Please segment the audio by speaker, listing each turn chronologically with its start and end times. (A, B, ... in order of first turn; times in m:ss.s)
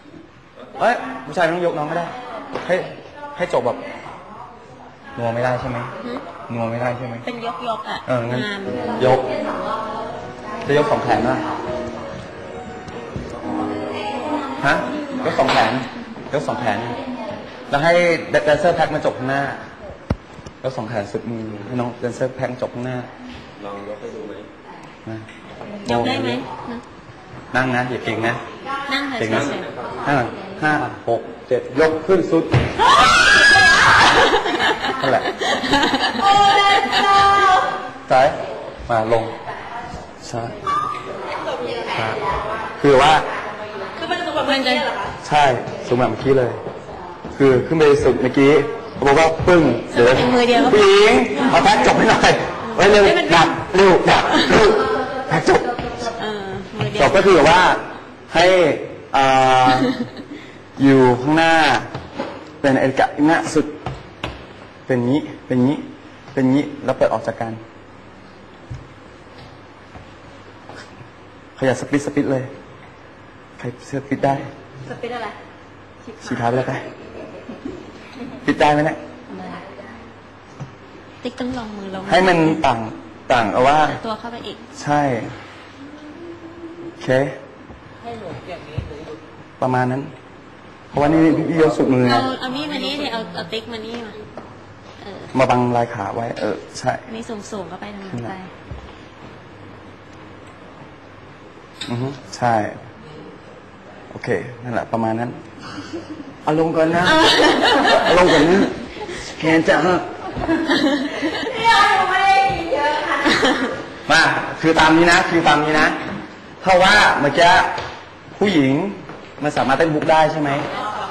0:00.8-0:03.8 A
0:05.2-0:05.9 A
0:06.5-0:07.3 A
0:07.2-0:09.0 B
0:08.1-0:09.4 A
0:10.6-0:11.5 A
0:13.4-0:14.2 C
0:14.6-0:17.0 A
0:17.7-0:19.6 A
0:20.6-0:23.1 A
0:23.6-0:24.5 C
0:25.8-0:26.4 A
0:25.8-0:26.8 B
0:27.5-0:28.4 A
0:28.9-0:29.7 B
0:29.2-0:32.7 A
0:29.3-0:30.1 C
0:34.1-0:37.3 B
0:34.9-0:35.4 A
0:38.1-0:39.4 A
0:40.2-0:40.6 A
0:41.9-0:42.2 A
0:42.8-0:43.3 A
0:44.0-0:45.0 B
0:45.2-0:46.6 A
0:47.4-0:56.0 A
0:49.9-0:50.9 B
0:52.7-0:53.6 B
0:56.1-0:57.2 B
0:57.0-0:59.9 A
1:00.8-1:01.9 A
1:02.6-1:03.7 A
1:04.9-1:07.6 A
1:11.6-1:12.5 A
1:13.6-1:14.5 A
1:14.9-1:15.4 B
1:16.0-1:16.5 B
1:16.2-1:16.9 A
1:18.4-1:19.0 A
1:21.2-1:22.6 B
1:22.0-1:24.0 A
1:23.8-1:24.6 B
1:24.8-1:25.4 A
1:27.0-1:27.4 A
1:29.6-1:30.1 A
1:30.9-1:32.3 A
1:31.3-1:31.8 C
1:32.0-1:34.2 B
1:35.0-1:35.3 B
1:35.3-1:37.1 A
1:37.1-1:38.5 B
1:38.1-1:38.3 A
1:41.9-1:42.9 A
1:44.1-1:45.4 A
1:46.4-1:50.1 A
1:47.1-1:48.2 B
1:50.8-1:52.3 B
1:53.2-1:53.7 B
1:54.1-1:56.0 A
1:56.6-1:57.7 A
1:58.4-2:00.7 A